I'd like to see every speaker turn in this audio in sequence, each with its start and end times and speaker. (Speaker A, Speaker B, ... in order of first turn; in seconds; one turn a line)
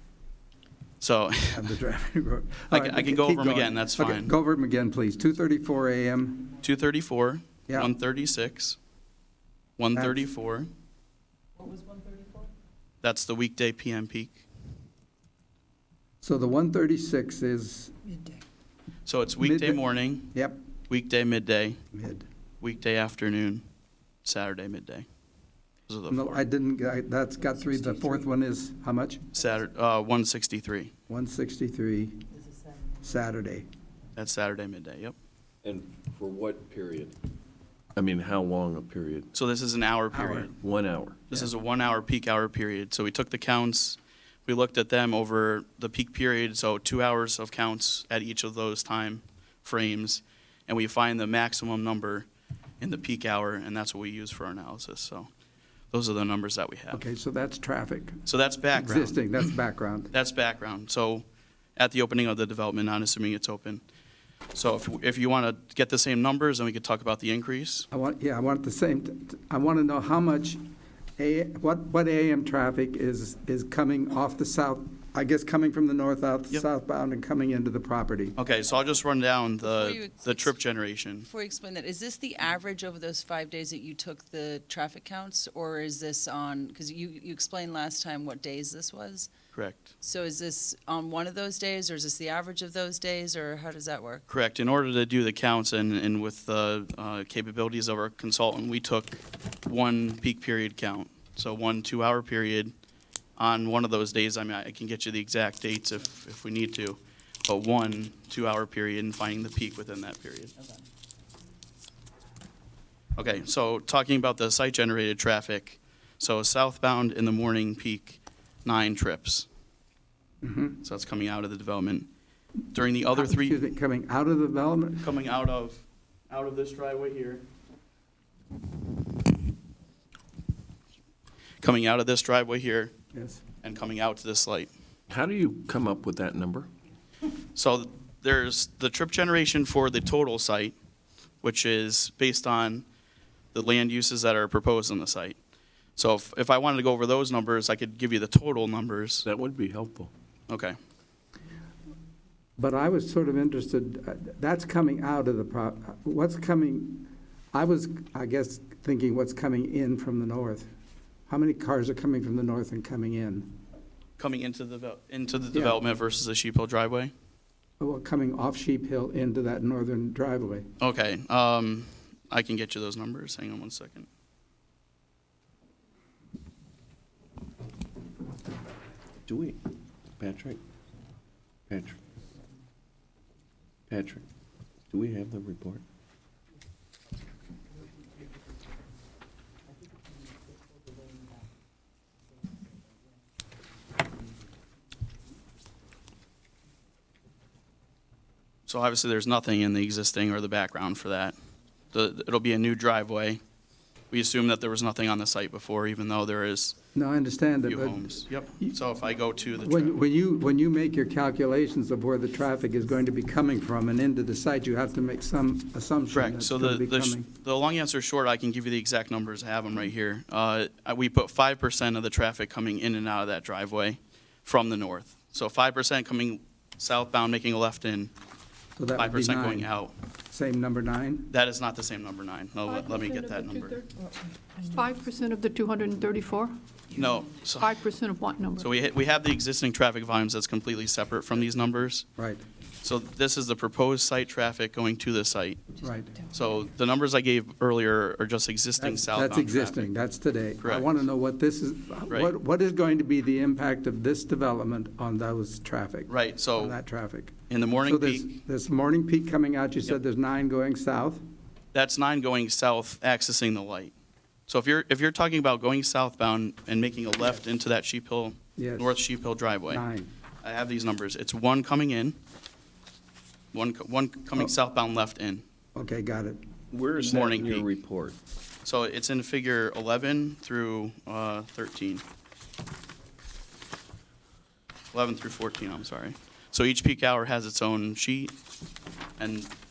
Speaker A: 1.0-1.8
Speaker B: 1.5-6.5
Speaker A: 2.7-4.3
Speaker A: 6.6-8.8
Speaker A: 9.8-10.7
Speaker B: 9.9-10.2
Speaker C: 11.6-12.5
Speaker A: 13.0-14.4
Speaker B: 16.2-17.9
Speaker A: 19.1-20.3
Speaker B: 19.4-20.6
Speaker A: 20.9-21.8
Speaker B: 21.9-22.3
Speaker A: 22.6-23.6
Speaker A: 24.2-25.1
Speaker A: 25.9-26.4
Speaker B: 26.1-29.2
Speaker C: 27.5-28.3
Speaker A: 29.3-30.9
Speaker B: 31.1-32.2
Speaker B: 33.0-33.7
Speaker A: 34.2-35.1
Speaker D: 35.6-37.1
Speaker D: 38.0-39.3
Speaker A: 39.3-40.5
Speaker B: 40.1-40.5
Speaker D: 40.6-41.2
Speaker A: 41.3-52.3
Speaker A: 52.8-55.3
Speaker A: 55.9-57.0
Speaker B: 56.9-58.2
Speaker A: 58.3-59.5
Speaker B: 58.7-60.1
Speaker A: 60.1-61.2
Speaker A: 61.8-63.8
Speaker A: 64.5-67.9
Speaker B: 67.9-70.6
Speaker B: 71.2-78.4
Speaker A: 78.4-81.3
Speaker C: 79.6-80.6
Speaker C: 81.3-89.3
Speaker A: 89.5-89.9
Speaker C: 90.0-94.3
Speaker A: 94.3-102.7
Speaker A: 103.4-110.6
Speaker A: 113.2-119.5
Speaker B: 120.4-120.8
Speaker A: 120.8-122.1
Speaker A: 122.7-123.6
Speaker B: 123.2-125.1
Speaker A: 125.0-127.4
Speaker A: 131.6-132.9
Speaker B: 133.1-133.4
Speaker A: 133.6-134.7
Speaker D: 135.1-136.7
Speaker A: 137.6-140.8
Speaker A: 141.4-142.8
Speaker A: 143.5-145.4
Speaker A: 146.0-149.2
Speaker D: 149.2-150.1
Speaker A: 150.5-150.8
Speaker B: 152.6-160.7
Speaker B: 161.3-163.5
Speaker A: 164.2-167.1
Speaker B: 165.5-165.8
Speaker B: 167.8-170.7
Speaker A: 170.8-174.1
Speaker D: 179.3-179.6
Speaker D: 180.2-180.6
Speaker D: 181.7-182.0
Speaker D: 183.9-184.3
Speaker D: 184.9-185.8
Speaker A: 198.7-201.3
Speaker A: 201.9-203.4
Speaker A: 204.1-206.8
Speaker B: 206.9-208.8
Speaker A: 207.7-210.0
Speaker B: 209.6-217.3
Speaker A: 216.1-228.1
Speaker B: 228.8-229.8
Speaker A: 228.9-229.9
Speaker B: 230.3-231.3
Speaker A: 231.3-233.8
Speaker E: 232.7-233.9
Speaker E: 234.7-236.6
Speaker A: 236.9-237.8
Speaker E: 237.6-238.7
Speaker A: 238.6-242.1
Speaker B: 242.2-242.4
Speaker A: 242.8-245.8
Speaker B: 245.8-246.2
Speaker A: 246.3-249.9
Speaker B: 248.8-261.2
Speaker A: 250.6-251.0
Speaker A: 252.1-252.3
Speaker A: 256.1-256.8
Speaker A: 257.5-258.3
Speaker A: 261.7-263.9
Speaker A: 264.5-269.8
Speaker B: 268.6-269.0
Speaker B: 269.7-270.1
Speaker A: 270.4-272.2
Speaker A: 273.5-275.4
Speaker B: 275.8-276.4
Speaker D: 276.7-278.2
Speaker A: 277.0-277.7
Speaker A: 278.6-282.0
Speaker A: 284.9-288.4
Speaker A: 289.2-289.5